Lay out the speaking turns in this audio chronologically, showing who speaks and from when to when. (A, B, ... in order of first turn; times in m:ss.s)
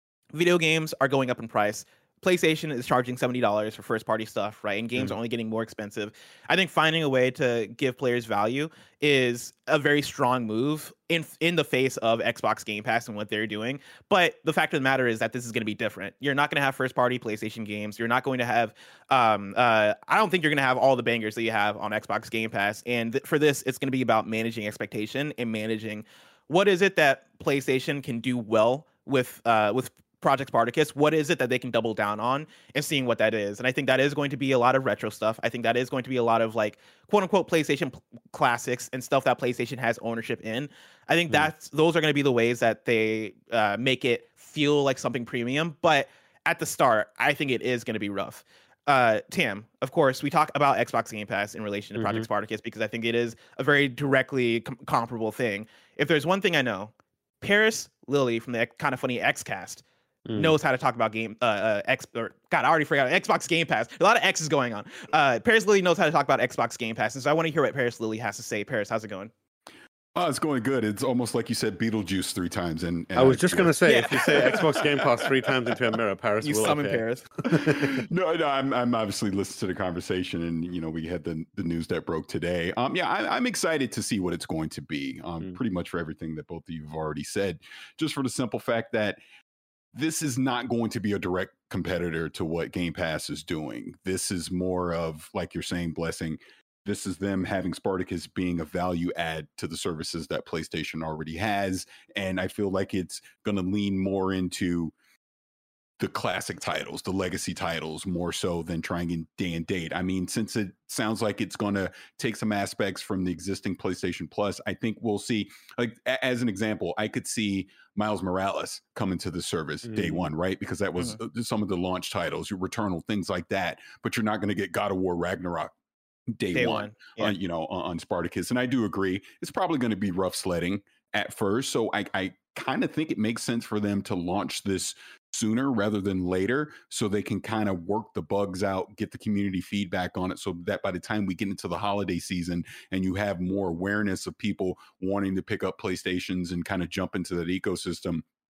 0:00.3-1:09.3 A
0:52.0-0:52.3 B
1:00.3-1:00.6 B
1:10.2-1:15.3 C
1:13.2-1:17.9 B
1:13.8-1:14.7 A
1:16.4-1:17.3 A
1:17.6-1:29.2 C
1:29.9-1:44.9 C
1:46.0-2:05.7 C
1:59.8-2:00.3 B
2:06.3-2:28.2 C
2:06.5-2:07.3 A